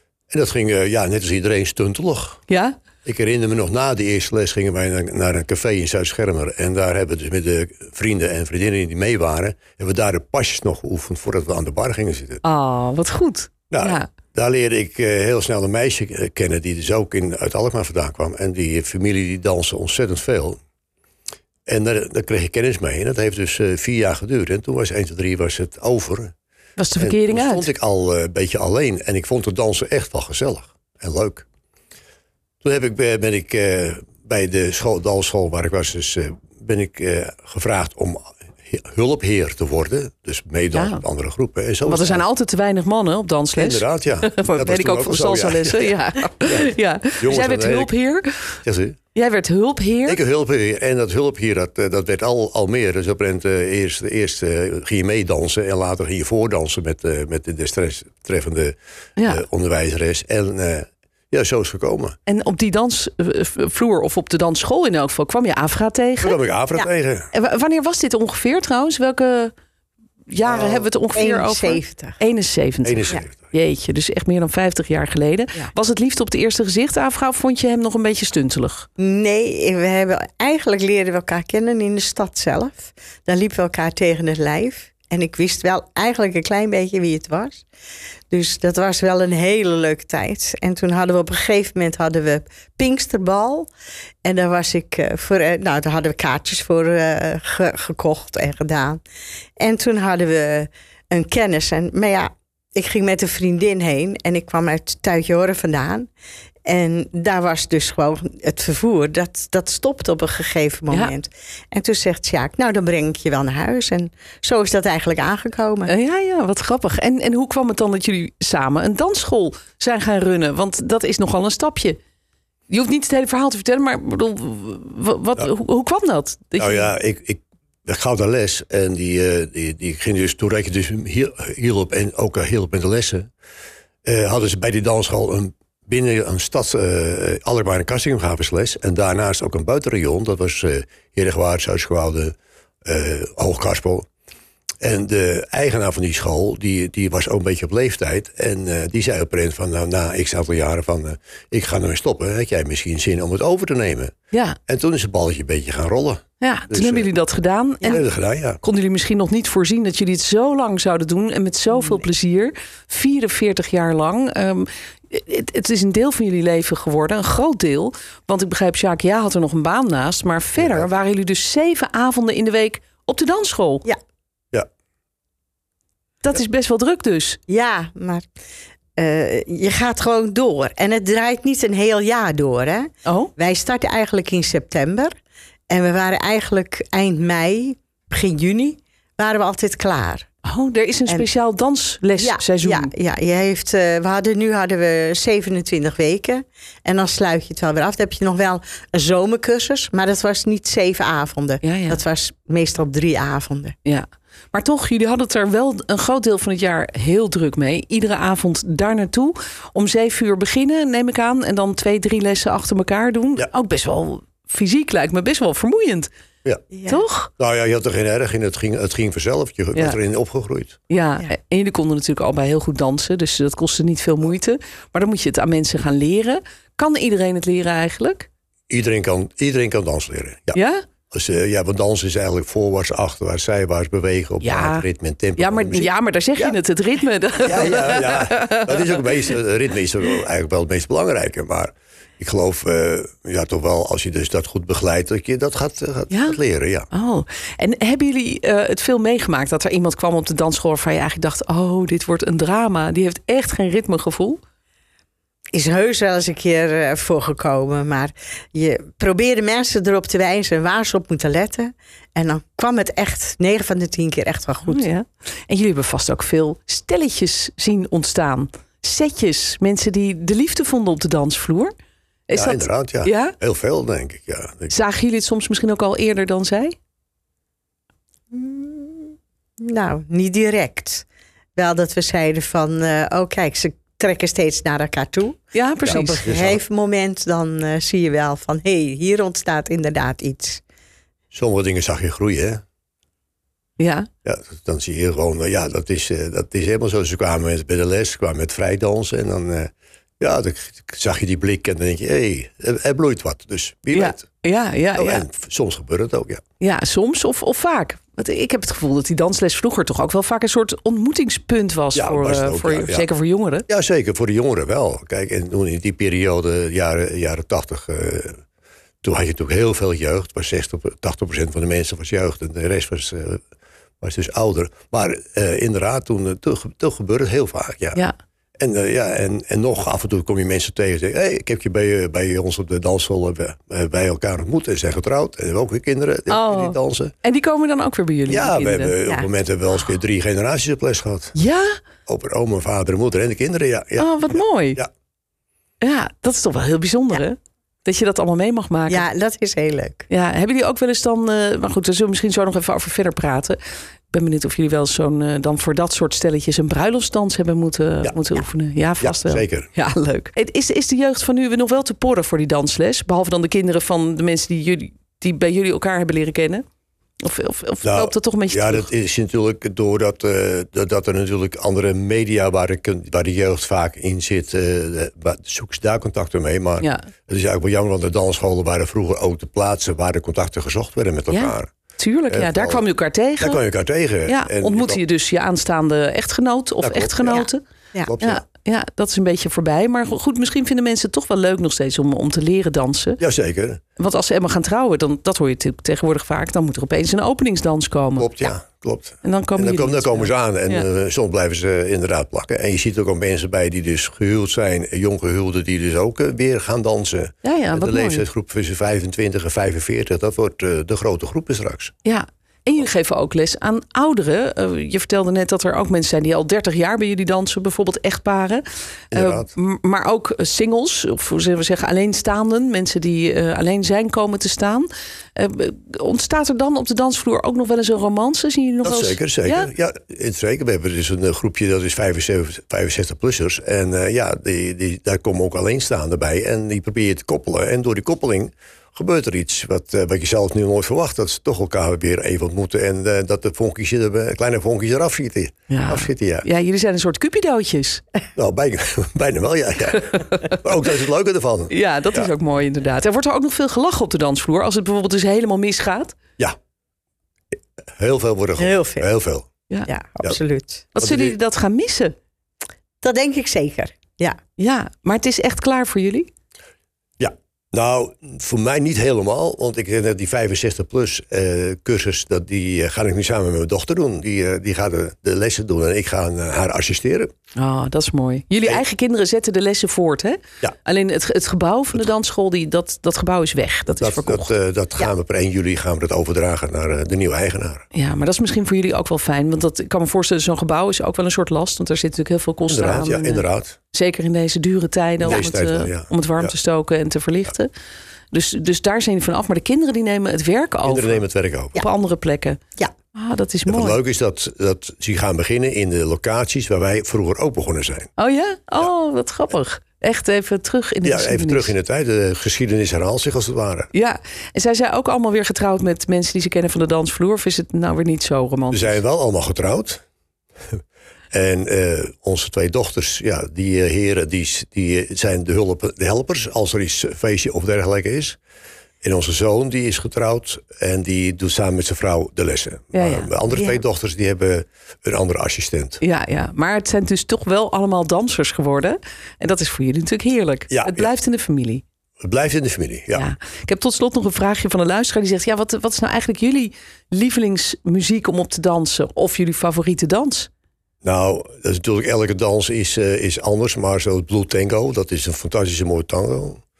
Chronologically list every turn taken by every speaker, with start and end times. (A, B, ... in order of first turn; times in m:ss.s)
0:00.3-0:02.4 A
0:02.5-0:02.8 B
0:03.0-0:12.4 A
0:12.4-0:14.1 B
0:13.7-0:20.6 A
0:21.7-0:26.3 A
0:26.8-0:27.7 B
0:27.0-0:31.4 A
0:32.6-0:42.2 A
0:40.7-0:41.0 B
0:41.8-0:48.6 B
0:43.5-0:47.9 A
0:48.6-0:49.0 A
0:49.1-0:50.2 B
0:50.0-1:02.2 A
0:59.2-0:59.4 B
1:02.2-1:06.4 B
1:06.2-1:07.3 A
1:07.3-1:09.5 B
1:10.3-1:18.9 B
1:10.6-1:12.2 C
1:12.8-1:13.5 A
1:19.0-1:27.6 C
1:28.3-1:33.7 C
1:34.2-1:39.0 C
1:39.6-1:46.1 C
1:46.6-1:55.9 C
1:55.8-2:02.0 B
2:02.7-2:06.9 B
2:06.6-2:13.3 A
2:14.0-2:24.1 A
2:24.8-2:34.1 A
2:34.3-2:34.6 B
2:34.7-2:37.1 A
2:36.4-2:53.9 B
2:37.8-2:38.6 A
2:50.6-2:50.9 A
2:56.2-2:57.4 B
2:57.5-2:58.2 C
2:59.0-3:05.1 C
3:03.0-3:03.3 B
3:05.7-3:10.3 C
3:10.4-3:12.9 B
3:12.2-3:23.7 C
3:21.6-3:22.0 B
3:23.8-3:36.1 B
3:36.7-3:37.0 C
3:36.8-3:37.3 B
3:37.4-3:40.8 A
3:40.9-3:48.3 B
3:48.7-3:50.6 A
3:50.5-3:50.8 B
3:51.1-3:56.6 A
3:54.4-3:59.1 B
3:57.4-4:06.9 A
4:06.1-4:06.4 B
4:06.9-4:14.4 B
4:15.5-4:24.8 C
4:24.6-4:31.7 B
4:32.3-4:33.3 B
4:32.3-4:34.7 A
4:34.7-4:36.7 B
4:38.3-4:41.0 C
4:41.6-4:45.4 C
4:45.5-4:46.3 B
4:45.8-4:46.6 A
4:46.2-4:50.6 C
4:51.3-4:52.6 A
4:53.8-4:54.1 B
4:54.2-5:04.3 A
5:03.9-5:05.2 B
5:04.9-5:06.4 A
5:06.6-5:13.7 B
5:11.9-5:13.1 A
5:13.7-5:18.4 A
5:19.0-5:23.4 A
5:24.0-5:28.0 A
5:28.6-5:37.1 A
5:36.3-5:38.9 B
5:38.3-5:41.3 A
5:41.3-5:41.8 B
5:42.0-5:44.2 A
5:44.0-5:44.8 B
5:45.8-5:49.0 B
5:48.9-5:50.1 C
5:50.1-5:53.6 B
5:54.1-6:06.6 B
5:59.0-5:59.7 A
6:07.2-6:08.9 B
6:07.8-6:21.7 A
6:16.8-6:17.1 B
6:21.3-6:23.6 B
6:22.3-6:22.8 A
6:23.4-6:25.0 A
6:24.2-6:27.6 B
6:26.8-6:27.5 A
6:28.0-6:28.4 A
6:28.2-6:33.2 B
6:33.2-6:33.8 A
6:34.0-6:38.5 B
6:38.2-6:51.9 A
6:39.2-6:40.9 B
6:47.4-6:48.2 B
6:52.0-7:09.7 B
6:59.1-6:59.5 A
7:08.8-7:26.5 A
7:25.7-7:28.0 B
7:28.4-7:32.3 A
7:31.7-7:36.2 B
7:38.0-7:39.5 A
7:38.6-7:39.1 C
7:39.9-7:40.8 C
7:40.9-7:42.1 B
7:41.0-7:41.4 A
7:43.0-7:44.4 C
7:44.6-7:46.3 B
7:47.2-7:57.3 A
7:57.5-8:04.5 B
8:04.0-8:07.8 A
8:07.9-8:17.7 B
8:12.7-8:13.8 A
8:15.2-8:16.5 A
8:18.3-8:21.2 B
8:20.8-8:21.8 A
8:21.8-8:22.6 B
8:23.1-8:24.0 B
8:23.6-8:28.1 A
8:28.2-8:31.7 B
8:31.0-8:33.9 A
8:33.9-8:39.0 B
8:38.7-8:40.0 A
8:41.3-8:48.4 A
8:49.0-8:56.0 A
8:52.9-8:53.3 B
8:56.0-9:01.8 B
9:00.7-9:01.1 A
9:02.2-9:03.3 A
9:03.1-9:10.5 B
9:11.0-9:16.6 A